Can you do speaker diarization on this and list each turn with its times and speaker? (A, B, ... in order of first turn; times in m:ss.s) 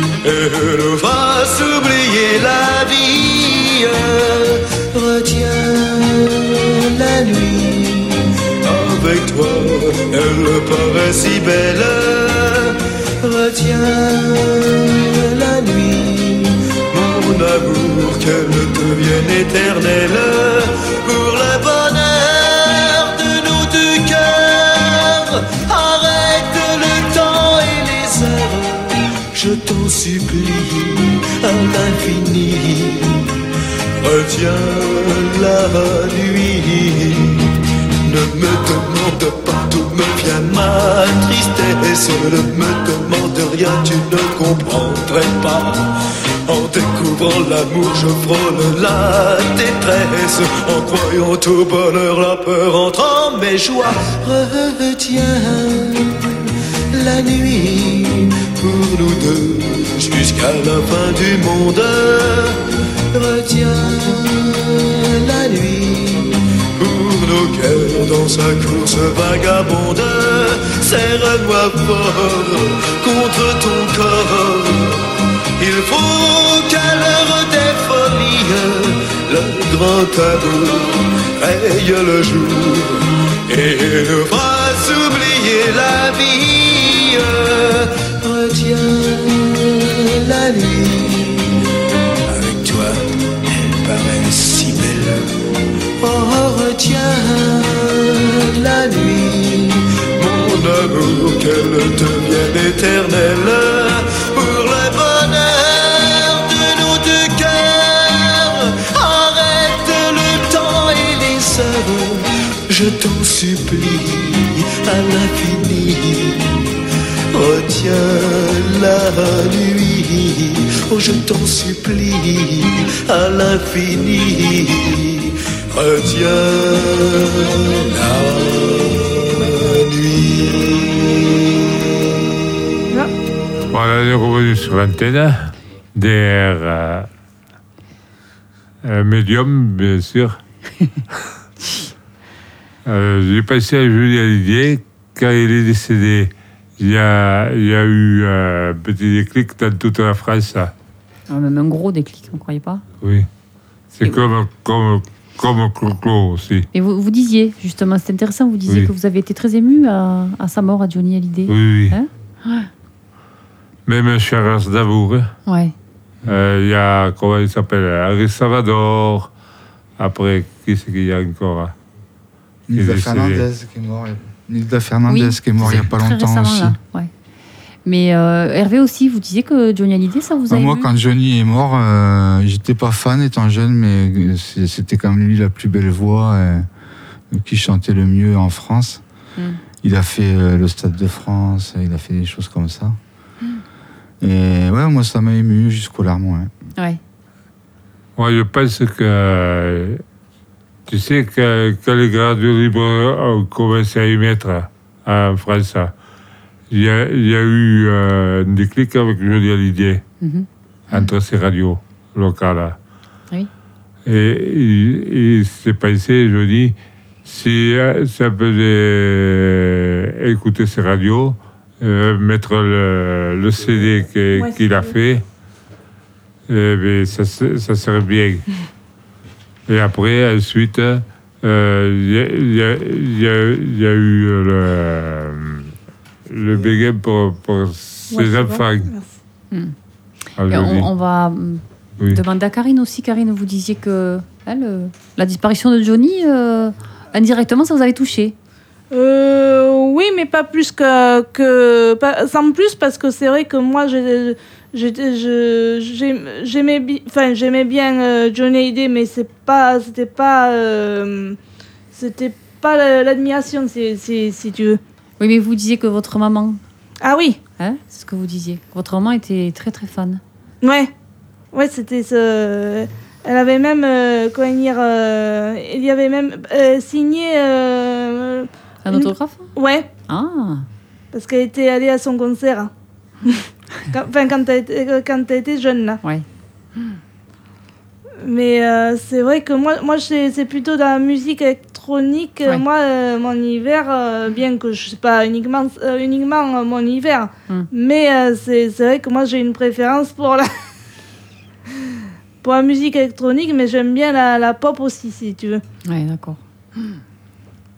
0:00.2-0:33.4 A
0:34.0-1:31.6 A
1:32.3-1:35.3 A
1:36.0-1:56.7 A
1:57.3-2:11.6 A
2:13.7-2:17.1 B
2:18.8-2:20.4 B
2:22.9-2:30.7 B
2:31.3-2:32.8 C
2:33.0-2:33.3 B
2:33.9-2:36.7 B
2:36.7-2:42.7 C
2:41.5-2:42.0 B
2:43.9-2:45.3 B
2:45.5-2:45.7 C
2:46.2-2:49.3 B
2:50.0-2:51.7 B
2:52.7-2:56.8 D
2:52.7-2:53.4 B
2:55.1-2:57.1 C
2:57.8-3:00.9 C
3:00.5-3:06.6 D
3:07.3-3:09.0 D
3:09.8-3:13.0 D
3:14.2-3:16.5 D
3:18.2-3:20.0 B
3:20.9-3:25.9 B
3:26.7-3:30.0 B
3:30.2-3:31.1 C
3:30.9-3:32.8 B
3:34.1-3:45.2 B
3:44.3-3:44.9 E
3:46.5-3:48.4 B
3:49.7-3:55.7 B
3:56.3-3:58.9 B
3:58.1-3:59.2 E
4:00.4-4:00.9 B
4:00.5-4:08.4 C
4:08.9-4:21.4 E
4:21.9-4:24.8 E
4:25.2-4:26.6 C
4:27.0-4:27.4 E
4:27.6-4:30.2 C
4:30.6-4:30.9 E
4:31.5-4:39.9 E
4:38.8-4:39.5 C
4:40.1-4:40.6 C
4:41.1-4:42.7 E
4:43.2-4:46.0 E
4:48.2-5:00.5 E
5:02.4-5:05.6 E
5:05.9-5:07.0 C